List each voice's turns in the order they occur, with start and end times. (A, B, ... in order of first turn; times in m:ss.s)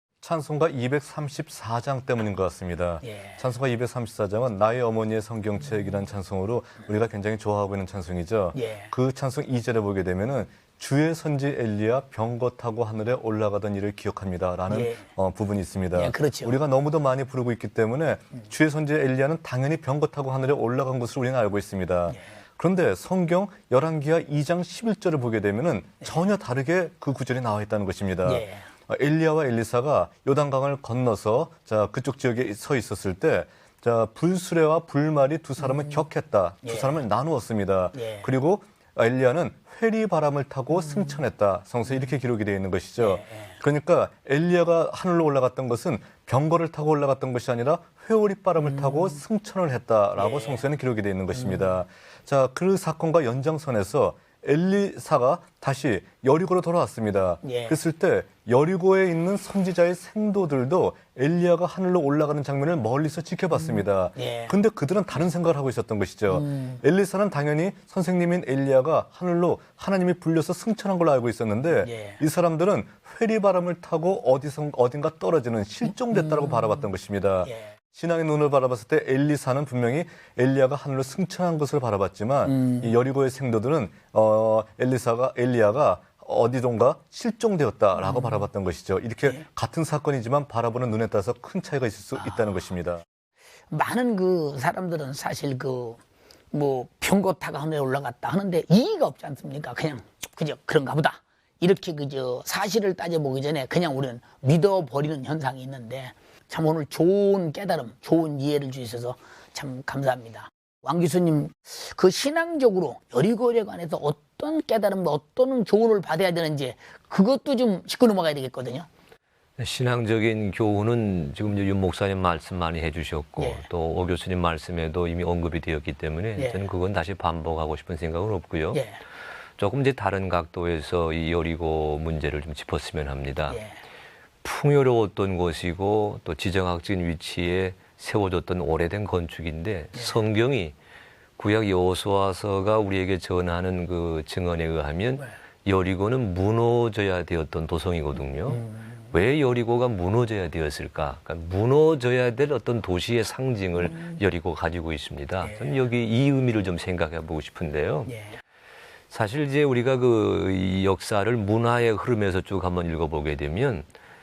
0:00.2-1:33.0 A
0:03.0-0:03.4 B
0:08.6-0:08.9 B
0:14.7-0:15.0 B
0:16.0-0:16.5 B
0:28.2-0:28.7 B
0:36.7-0:37.0 B
0:37.9-0:38.3 B
0:43.0-0:43.6 B
0:48.6-0:49.2 B
0:50.2-0:50.6 B
0:51.4-0:51.8 B
0:57.4-0:57.8 B
1:03.6-1:04.6 B
1:06.3-1:06.8 B
1:11.8-1:12.2 B
1:16.2-1:16.8 B
1:17.4-1:17.7 B
1:22.5-1:22.9 B
1:28.0-1:28.4 B
1:33.7-1:36.0 B
1:36.5-1:58.9 B
1:59.6-2:08.9 C
2:03.4-2:03.6 B
2:06.4-2:06.7 B
2:08.7-2:09.0 B
2:09.6-2:13.6 C
2:13.5-2:13.8 B
2:14.4-2:20.7 C
2:21.4-2:38.1 C
2:28.5-2:28.9 B
2:35.4-2:35.8 B
2:38.1-2:38.4 B
2:39.1-2:43.9 C